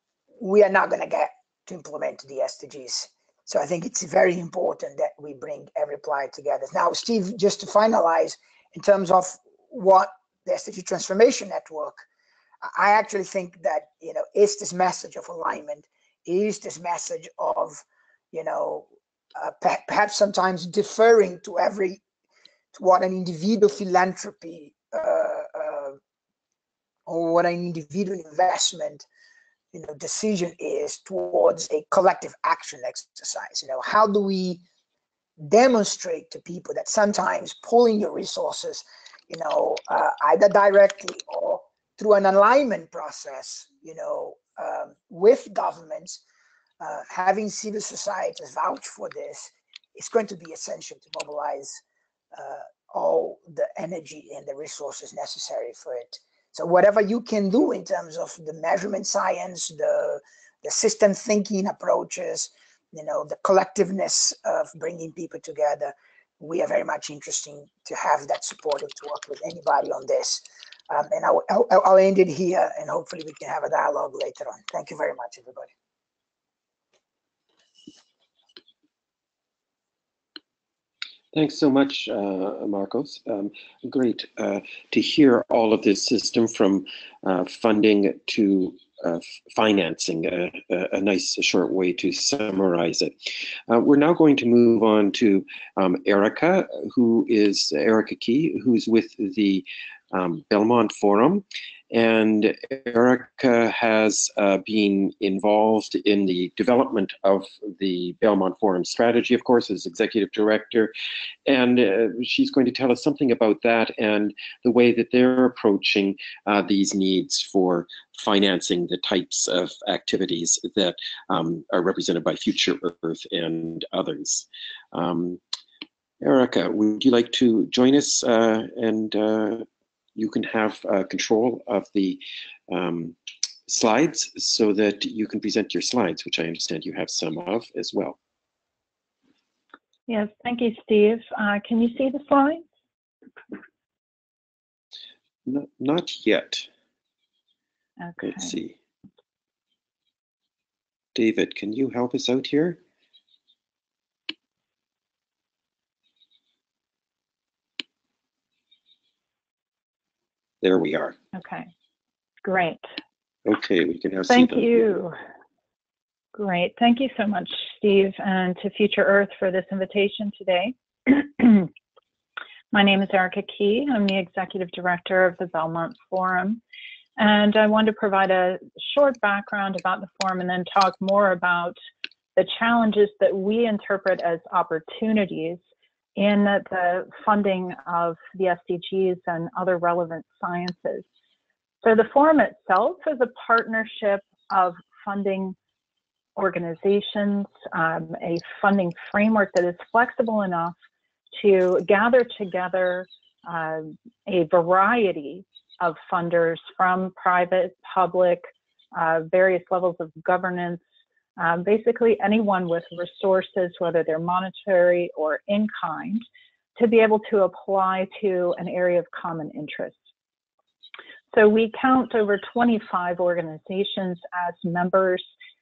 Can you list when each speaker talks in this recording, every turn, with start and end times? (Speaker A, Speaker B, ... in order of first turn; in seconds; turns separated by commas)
Speaker A: 0.4-12.0, Speaker A: 12.6-22.0, Speaker A: 22.7-26.0, Speaker A: 27.1-29.1, Speaker A: 29.7-34.6, Speaker A: 35.4-46.2, Speaker A: 46.8-51.8, Speaker A: 52.3-75.7, Speaker B: 81.3-110.9, Speaker B: 111.5-125.4, Speaker B: 126.2-129.6, Speaker B: 130.2-133.1, Speaker B: 133.7-138.2, Speaker C: 140.1-142.6, Speaker B: 145.4-146.7, Speaker C: 148.0-148.6, Speaker B: 148.2-148.7, Speaker B: 151.1-152.8, Speaker B: 160.6-161.2, Speaker C: 161.3-161.7, Speaker C: 162.4-162.8, Speaker B: 163.4-164.9, Speaker C: 164.3-165.1, Speaker C: 166.3-171.7, Speaker C: 172.7-176.6, Speaker C: 177.2-181.8, Speaker C: 182.3-185.6, Speaker C: 186.2-191.0, Speaker C: 191.8-195.6, Speaker C: 196.3-200.7, Speaker C: 201.4-210.8, Speaker C: 211.4-216.2, Speaker C: 216.8-220.0, Speaker C: 221.3-225.2